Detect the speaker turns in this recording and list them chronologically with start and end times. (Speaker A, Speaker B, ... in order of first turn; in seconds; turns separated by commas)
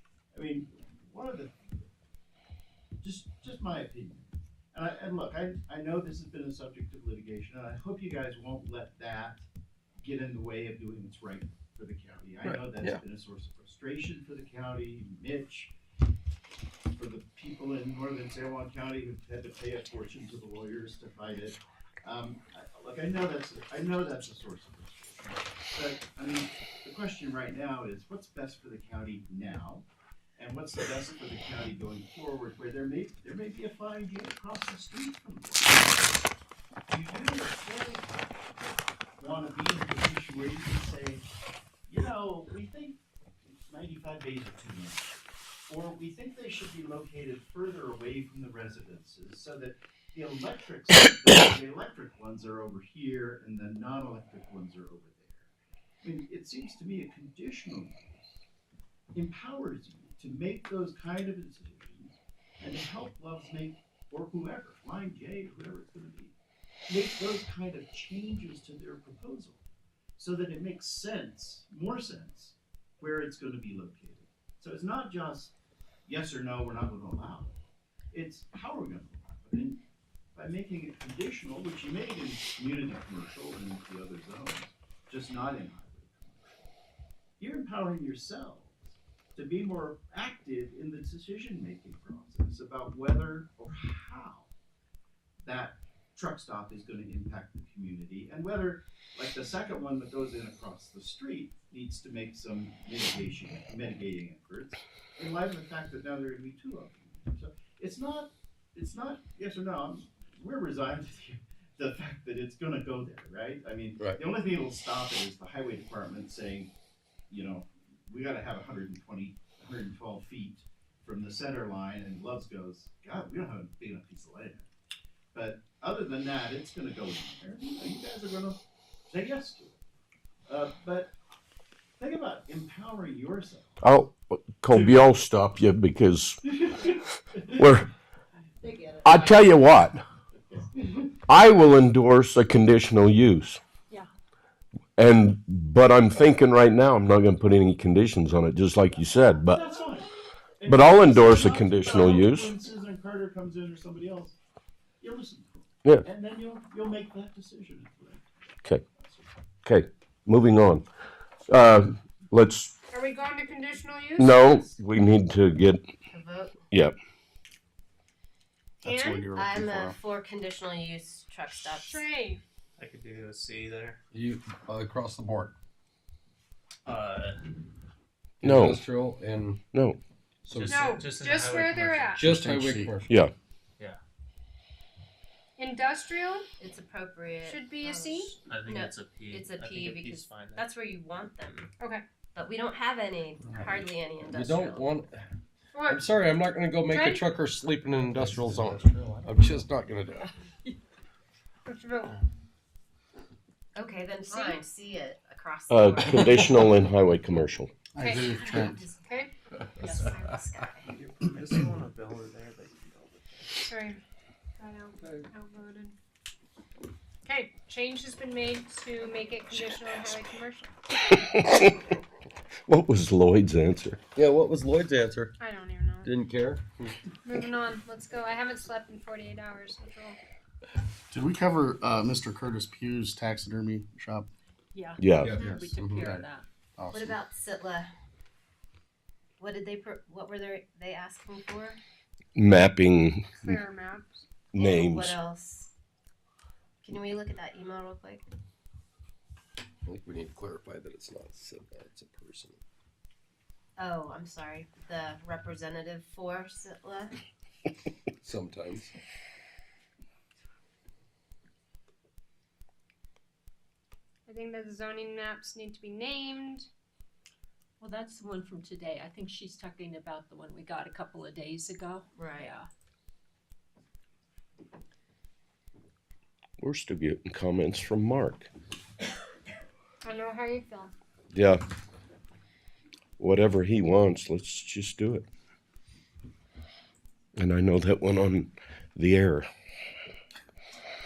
Speaker A: 0.3-1.6, Speaker A: 3.0-9.4, Speaker A: 10.0-15.7, Speaker B: 12.4-13.0, Speaker A: 16.9-29.8, Speaker A: 30.4-36.1, Speaker A: 36.9-38.5, Speaker A: 39.2-41.2, Speaker A: 41.9-55.5, Speaker A: 56.0-58.4, Speaker A: 59.1-66.3, Speaker A: 66.9-69.6, Speaker A: 70.2-75.5, Speaker A: 76.1-77.6, Speaker A: 78.1-79.8, Speaker A: 80.3-86.7, Speaker A: 87.4-94.5, Speaker A: 95.4-116.7, Speaker A: 117.3-124.7, Speaker A: 125.3-129.8, Speaker A: 130.5-131.1, Speaker A: 132.0-133.8, Speaker C: 133.8-136.6, Speaker A: 134.7-135.0, Speaker A: 136.4-137.6, Speaker C: 137.5-137.9, Speaker D: 138.6-139.5, Speaker C: 139.0-140.0, Speaker A: 140.4-141.1, Speaker C: 141.3-143.6, Speaker C: 145.0-149.7, Speaker A: 149.4-150.1, Speaker A: 150.6-154.3, Speaker C: 150.7-152.5, Speaker A: 155.0-158.2, Speaker A: 158.9-159.3, Speaker C: 159.6-160.8, Speaker C: 161.5-162.7, Speaker E: 162.9-164.7, Speaker C: 164.2-165.8, Speaker D: 166.1-166.6, Speaker E: 168.8-169.3, Speaker F: 168.8-170.0, Speaker D: 169.3-172.1, Speaker E: 171.7-172.4, Speaker G: 172.8-174.0, Speaker B: 174.1-175.5, Speaker G: 176.8-177.4, Speaker B: 178.4-179.6, Speaker C: 178.4-178.8, Speaker C: 179.7-180.0, Speaker B: 180.4-181.0, Speaker G: 180.5-182.2, Speaker E: 180.6-182.3, Speaker B: 182.2-183.1, Speaker F: 182.3-183.0, Speaker E: 185.6-186.4, Speaker D: 186.6-191.7, Speaker E: 187.4-188.3, Speaker G: 188.4-190.7, Speaker D: 192.3-194.9, Speaker B: 194.3-195.2, Speaker E: 195.7-196.1, Speaker B: 195.8-200.3, Speaker E: 196.9-197.3, Speaker G: 198.1-199.7, Speaker E: 201.7-202.2, Speaker D: 203.7-206.6, Speaker E: 204.3-204.6, Speaker C: 205.7-207.7, Speaker F: 207.9-208.9, Speaker E: 208.0-208.3, Speaker D: 208.1-209.3, Speaker E: 209.0-209.3, Speaker D: 209.8-210.9, Speaker H: 209.8-210.1, Speaker E: 209.9-210.3, Speaker G: 210.9-213.4, Speaker E: 213.6-214.0, Speaker E: 214.6-215.9, Speaker E: 217.2-220.7, Speaker C: 221.1-221.7, Speaker C: 222.7-224.0, Speaker B: 224.1-225.3, Speaker E: 225.4-226.1, Speaker B: 226.0-227.0, Speaker E: 227.2-230.2, Speaker F: 231.1-234.3, Speaker H: 234.7-236.4, Speaker C: 235.0-235.4, Speaker B: 235.2-236.0, Speaker E: 235.3-235.6, Speaker F: 235.5-237.2, Speaker D: 236.9-237.9, Speaker D: 239.4-241.8, Speaker C: 242.3-243.6, Speaker E: 243.4-244.3, Speaker C: 244.5-245.2, Speaker D: 244.6-245.7, Speaker D: 246.8-248.2, Speaker B: 249.8-252.6, Speaker D: 253.8-257.2, Speaker B: 258.2-258.9, Speaker E: 264.3-266.7, Speaker H: 267.8-272.7, Speaker D: 272.1-272.5, Speaker C: 276.6-278.5, Speaker E: 280.0-280.9, Speaker C: 281.3-281.6, Speaker C: 283.2-285.2, Speaker C: 287.4-289.5